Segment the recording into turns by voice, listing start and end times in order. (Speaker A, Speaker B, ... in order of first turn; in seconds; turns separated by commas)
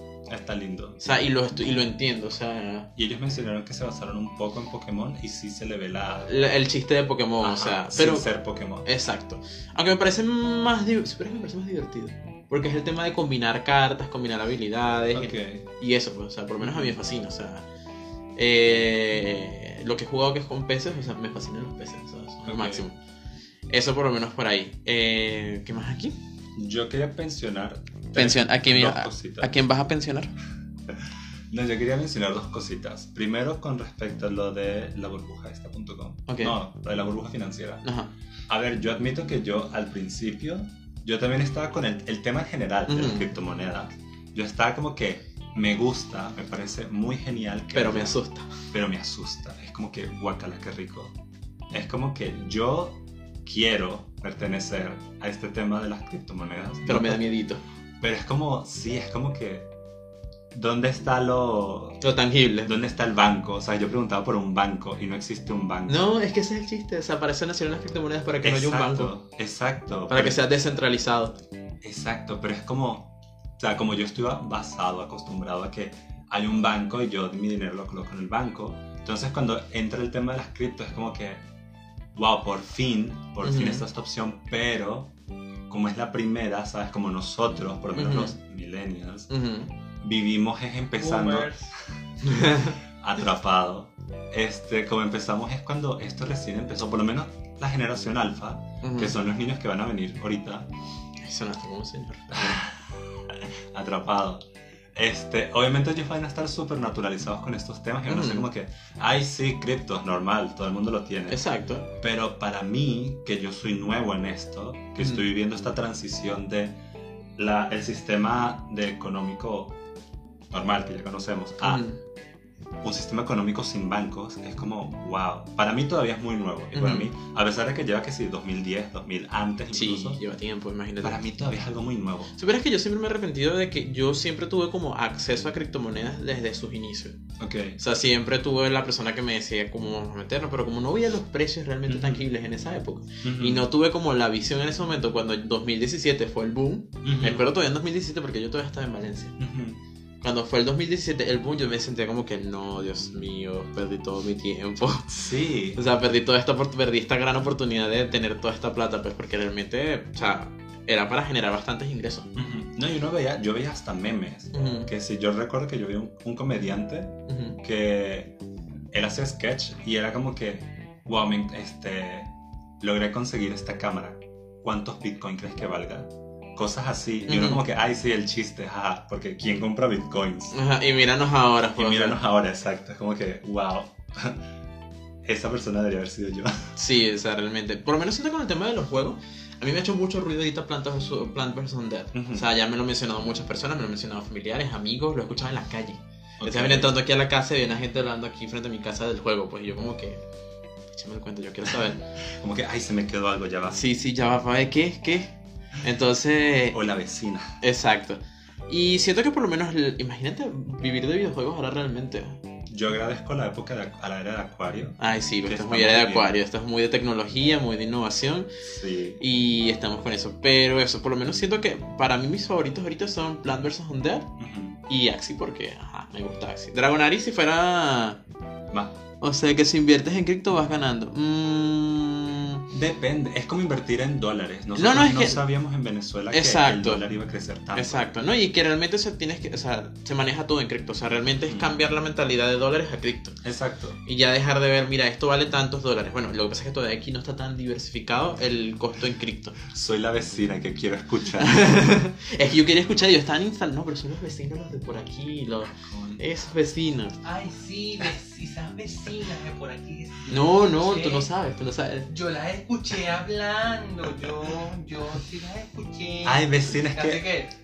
Speaker A: 0.3-1.0, Speaker B: 1.0-2.9, Speaker A: 3.0-6.3, Speaker B: 6.3-8.3, Speaker A: 7.4-8.9, Speaker B: 8.8-17.6, Speaker A: 15.1-15.7, Speaker A: 16.6-17.0, Speaker B: 18.4-23.0, Speaker A: 22.4-22.9, Speaker B: 23.7-26.2, Speaker A: 26.6-29.6, Speaker B: 28.2-30.3, Speaker A: 30.9-37.9, Speaker B: 36.3-36.6, Speaker B: 37.8-38.1, Speaker A: 38.5-48.2, Speaker B: 42.9-43.3, Speaker B: 47.7-48.5, Speaker A: 48.7-51.2, Speaker A: 51.7-57.2, Speaker B: 56.9-57.6, Speaker A: 58.0-59.7, Speaker A: 60.5-62.0, Speaker B: 62.0-62.7, Speaker A: 62.6-66.0, Speaker B: 65.9-69.1, Speaker A: 68.4-70.4, Speaker B: 70.1-71.4, Speaker A: 71.8-81.4, Speaker A: 82.1-85.1, Speaker B: 83.4-83.8, Speaker A: 85.7-89.3, Speaker B: 87.9-88.4, Speaker B: 89.3-89.7, Speaker A: 90.0-100.7, Speaker C: 91.0-91.8, Speaker B: 92.2-92.8, Speaker B: 98.8-99.2, Speaker B: 101.2-102.6, Speaker A: 102.3-104.4, Speaker A: 105.0-111.4, Speaker B: 108.1-108.5, Speaker B: 111.3-111.9, Speaker A: 112.0-116.8, Speaker A: 117.4-119.8, Speaker A: 120.5-121.8, Speaker B: 121.6-122.0, Speaker A: 122.8-130.2, Speaker B: 126.8-127.1, Speaker B: 129.7-131.2, Speaker A: 131.0-132.3, Speaker B: 132.4-137.2, Speaker A: 137.4-137.8, Speaker B: 137.8-149.4, Speaker A: 141.9-142.3, Speaker A: 143.2-143.7, Speaker A: 147.0-147.4, Speaker A: 149.4-149.8, Speaker B: 150.2-155.1, Speaker A: 155.1-155.8, Speaker B: 155.8-162.3, Speaker A: 162.3-168.4, Speaker B: 164.5-164.9, Speaker B: 167.3-167.6, Speaker A: 168.9-180.6, Speaker B: 177.3-177.6, Speaker B: 180.5-182.2, Speaker A: 181.8-184.5, Speaker A: 185.2-186.7, Speaker B: 186.8-200.2, Speaker A: 192.1-192.5, Speaker A: 196.4-196.9, Speaker B: 200.9-202.0, Speaker A: 202.3-203.8, Speaker B: 203.7-206.8, Speaker A: 206.7-207.6, Speaker B: 207.6-212.4, Speaker A: 212.7-216.3, Speaker B: 215.0-218.5, Speaker A: 218.6-219.2, Speaker B: 219.2-224.3, Speaker A: 224.4-224.8, Speaker B: 224.9-228.2, Speaker A: 228.7-229.0, Speaker B: 229.2-232.6, Speaker A: 232.7-238.1, Speaker B: 234.8-235.4, Speaker B: 236.3-237.0, Speaker B: 237.7-243.4, Speaker A: 241.4-241.7, Speaker A: 243.4-244.0, Speaker B: 244.0-249.6, Speaker A: 249.7-251.8, Speaker B: 251.4-257.1, Speaker A: 255.7-256.2, Speaker C: 257.2-261.3, Speaker B: 260.3-262.1, Speaker C: 262.1-267.5, Speaker A: 266.2-267.2